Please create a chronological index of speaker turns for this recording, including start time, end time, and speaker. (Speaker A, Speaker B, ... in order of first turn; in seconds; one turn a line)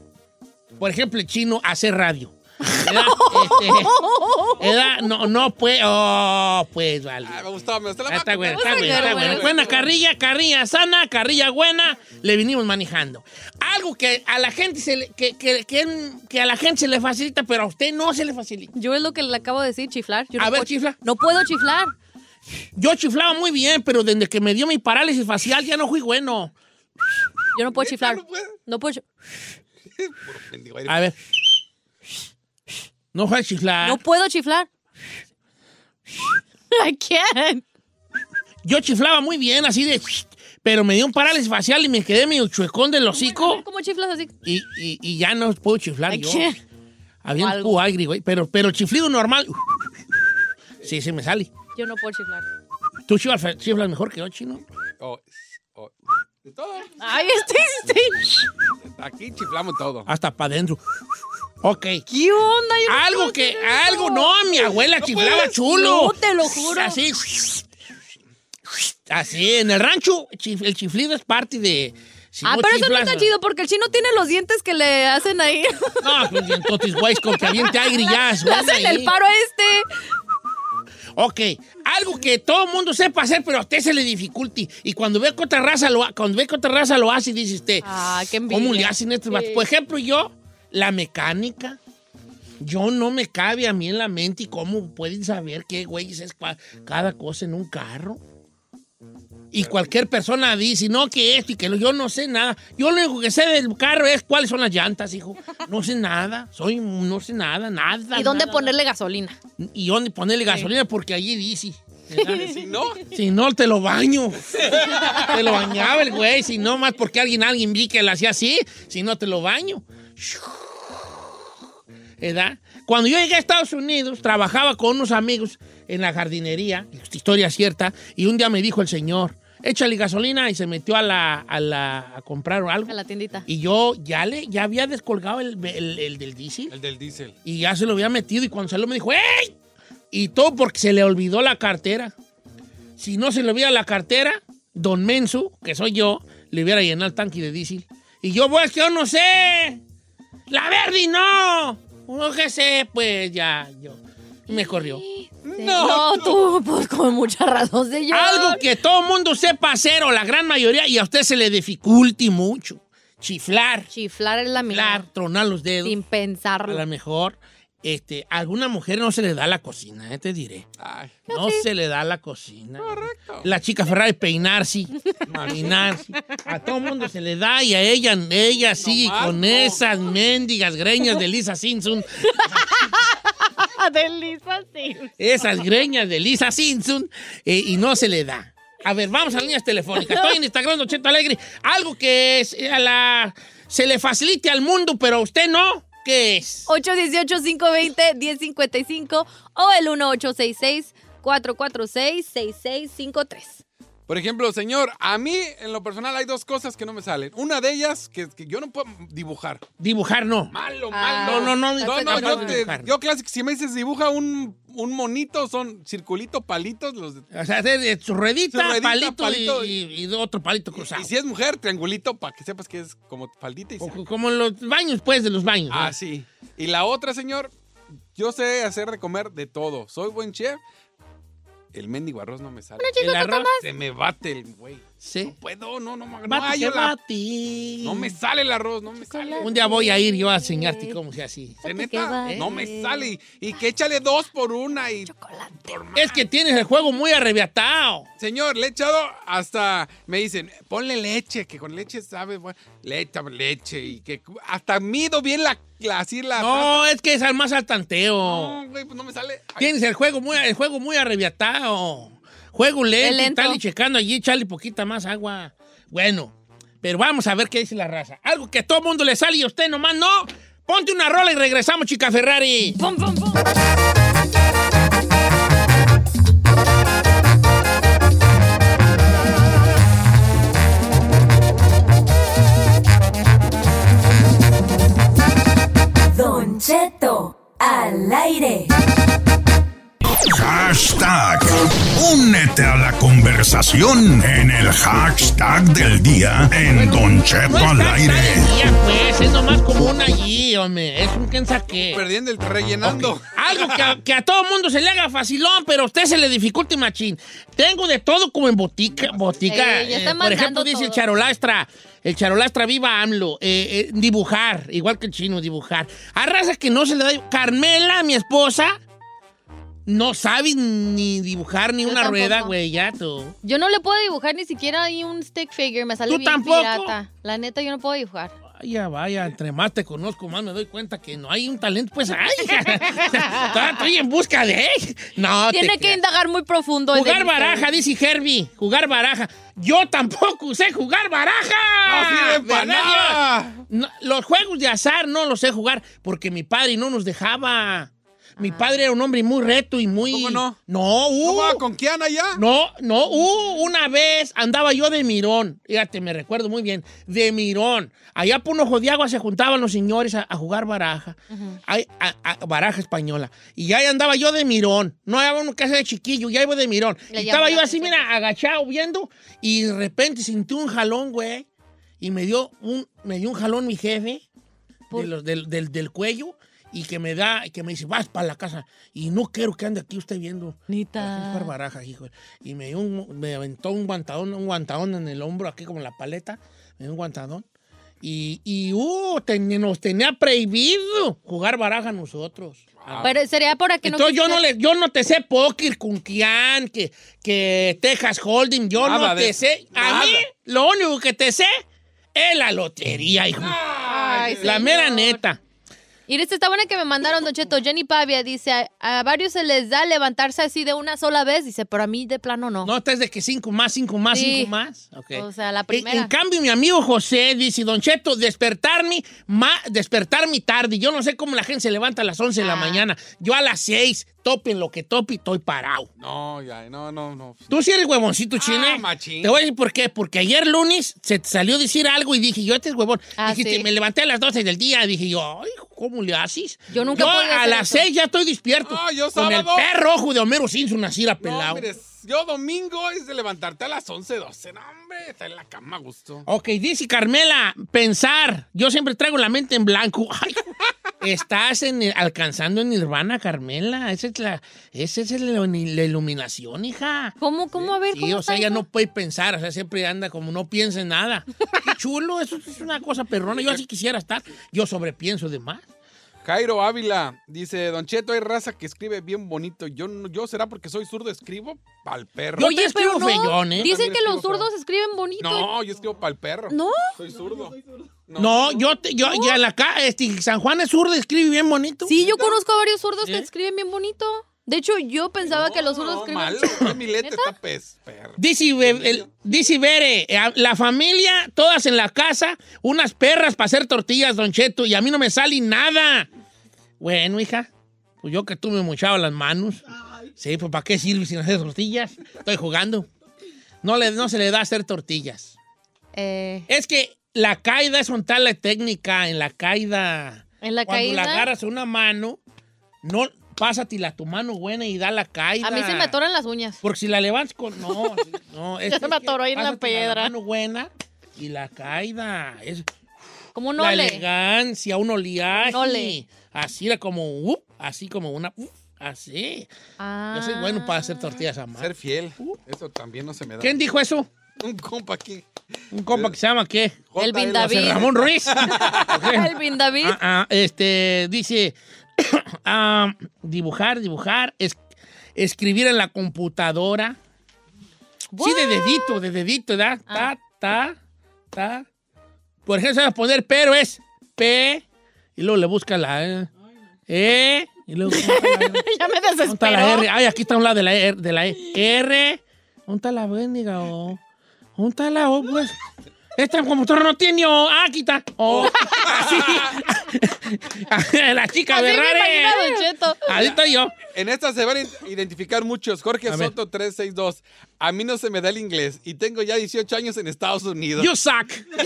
Speaker A: 0.8-7.3
Speaker B: 2.7-5.1
Speaker C: 7.2-9.9
Speaker A: 8.1-18.7
Speaker B: 8.4-9.8
Speaker B: 18.7-21.9
Speaker A: 20.4-21.0
Speaker A: 22.8-26.5
Speaker B: 27.5-29.0
Speaker C: 27.7-28.6
Speaker C: 29.9-31.0
Speaker A: 30.9-31.2
Speaker A: 33.1-34.0
Speaker B: 33.8-34.7
Speaker B: 36.7-37.6
Speaker A: 38.6-43.6
Speaker B: 43.1-44.3
Speaker A: 44.4-46.5
Speaker B: 46.1-46.6
Speaker A: 47.2-49.6
Speaker B: 47.4-47.8
Speaker A: 50.8-51.5
Speaker B: 51.8-52.5
Speaker A: 53.1-54.6
Speaker C: 55.0-55.9
Speaker C: 56.4-57.0
Speaker B: 57.0-58.5
Speaker C: 58.9-60.1
Speaker A: 60.0-60.8
Speaker A: 61.6-62.0
Speaker B: 62.1-64.7
Speaker A: 62.9-67.6
Speaker C: 64.8-65.5
Speaker B: 65.6-67.0
Speaker A: 68.7-73.3
Speaker B: 72.4-79.9
Speaker A: 76.0-79.1
Speaker A: 81.2-91.8
Speaker B: 87.8-89.7
Speaker A: 92.6-98.2
Speaker A: 99.5-108.7
Speaker C: 99.6-99.9
Speaker B: 108.1-109.4
Speaker A: 109.6-120.8
Speaker B: 112.1-112.5
Speaker C: 112.4-113.0
Speaker B: 115.2-115.9
Speaker A: 122.2-132.9
Speaker B: 132.9-133.4
Speaker A: 133.4-136.7
Speaker C: 136.7-137.3
Speaker A: 137.4-139.5
Speaker A: 140.1-142.1
Speaker A: 143.0-149.8
Speaker A: 150.5-155.0
Speaker B: 154.5-158.6
Speaker C: 155.4-156.5
Speaker A: 158.1-163.9
Speaker B: 163.9-165.0
Speaker A: 164.7-166.0
Speaker B: 165.8-166.8
Speaker A: 166.7-170.7
Speaker C: 170.8-171.2
Speaker B: 171.3-171.6
Speaker A: 171.3-174.9
Speaker C: 172.8-173.5
Speaker C: 175.3-175.8
Speaker A: 175.4-182.1
Speaker C: 178.7-179.8
Speaker B: 182.3-182.6
Speaker B: 183.6-185.1
Speaker A: 185.2-196.7
Speaker B: 189.9-190.3
Speaker B: 196.7-203.6
Speaker C: 204.1-209.7
Speaker A: 209.8-210.5
Speaker C: 210.5-217.2
Speaker B: 210.9-212.6
Speaker A: 211.2-212.9
Speaker A: 217.3-221.1
Speaker C: 218.5-219.8
Speaker C: 220.7-224.0
Speaker A: 223.8-225.9
Speaker C: 225.7-227.5
Speaker C: 228.1-230.6
Speaker C: 231.7-232.9
Speaker B: 232.8-233.6
Speaker A: 233.0-233.5
Speaker C: 233.6-236.9
Speaker A: 235.0-235.3
Speaker A: 236.3-238.1
Speaker C: 237.8-239.4
Speaker B: 239.0-241.0
Speaker A: 239.4-241.6
Speaker B: 241.6-243.1
Speaker C: 241.6-245.1
Speaker A: 242.2-242.5
Speaker B: 245.1-245.8
Speaker C: 245.6-246.2
Speaker A: 245.9-248.1
Speaker C: 248.2-256.9
Speaker A: 256.4-258.6
Speaker C: 258.2-259.7
Speaker A: 259.6-272.8
Speaker B: 263.0-263.6
Speaker B: 272.8-273.1
Speaker D: 286.1-288.7
Speaker E: 290.2-298.5
Speaker A: 296.7-302.0
Speaker C: 301.7-304.0
Speaker A: 302.8-318.8
Speaker B: 309.4-311.0
Speaker A: 319.9-323.3
Speaker B: 321.8-322.5
Speaker B: 323.4-328.3
Speaker A: 326.1-326.9
Speaker A: 328.5-336.0
Speaker B: 332.6-333.5
Speaker B: 335.5-337.7
Speaker A: 336.9-351.6
Speaker C: 341.9-343.6
Speaker B: 348.4-348.8
Speaker C: 350.0-350.6
Speaker C: 351.2-352.4
Speaker A: 352.3-371.4
Speaker B: 361.3-361.6
Speaker B: 367.1-368.1
Speaker A: 372.0-374.2
Speaker A: 374.9-387.4
Speaker B: 380.7-381.5
Speaker A: 388.0-393.1
Speaker C: 392.8-393.1
Speaker B: 393.0-394.4
Speaker A: 393.8-401.6
Speaker C: 398.8-400.2
Speaker A: 402.1-403.6
Speaker C: 403.4-404.6
Speaker B: 403.9-405.2
Speaker A: 404.4-405.4
Speaker B: 406.1-412.7
Speaker A: 412.6-425.9
Speaker B: 414.1-414.5
Speaker B: 415.1-416.1
Speaker B: 422.4-422.8
Speaker C: 426.0-427.5
Speaker A: 427.5-441.6
Speaker C: 428.4-429.3
Speaker B: 433.2-433.7
Speaker B: 436.7-437.9
Speaker C: 438.6-439.7
Speaker C: 441.2-446.2
Speaker A: 446.2-450.4
Speaker A: 451.0-457.1
Speaker B: 457.2-458.6
Speaker A: 457.9-465.7
Speaker C: 463.3-463.6
Speaker C: 466.2-472.5
Speaker A: 472.4-473.7
Speaker B: 472.4-475.5
Speaker C: 473.5-474.5
Speaker C: 475.2-478.7
Speaker B: 476.5-476.9
Speaker A: 478.2-481.9
Speaker B: 479.0-479.4
Speaker B: 481.8-487.3
Speaker C: 482.0-482.4
Speaker C: 485.3-489.1
Speaker A: 488.2-496.1
Speaker A: 496.8-497.5
Speaker A: 498.0-499.6
Speaker A: 500.2-502.9
Speaker A: 503.6-505.4
Speaker B: 505.9-506.5
Speaker A: 506.5-512.2
Speaker B: 510.4-511.3
Speaker A: 512.8-515.9
Speaker B: 515.4-516.6
Speaker A: 516.6-522.6
Speaker B: 517.7-518.0
Speaker B: 518.7-520.1
Speaker B: 523.3-524.0
Speaker A: 523.6-529.5
Speaker B: 525.4-526.0
Speaker B: 529.8-531.2
Speaker A: 530.1-532.4
Speaker C: 531.6-533.5
Speaker A: 533.4-534.1
Speaker C: 534.4-535.2
Speaker A: 535.7-544.6
Speaker C: 536.9-539.0
Speaker B: 537.0-537.9
Speaker B: 539.0-540.0
Speaker A: 545.1-547.0
Speaker B: 548.1-549.0
Speaker A: 548.2-550.8
Speaker A: 551.3-551.6
Speaker A: 552.5-554.6
Speaker A: 555.2-556.3
Speaker A: 556.9-558.6
Speaker B: 557.9-559.9
Speaker A: 559.2-564.0
Speaker A: 564.6-565.5
Speaker A: 566.2-573.7
Speaker C: 568.3-569.6
Speaker B: 571.5-573.1
Speaker C: 573.9-580.9
Speaker A: 576.1-576.3
Speaker A: 580.8-581.5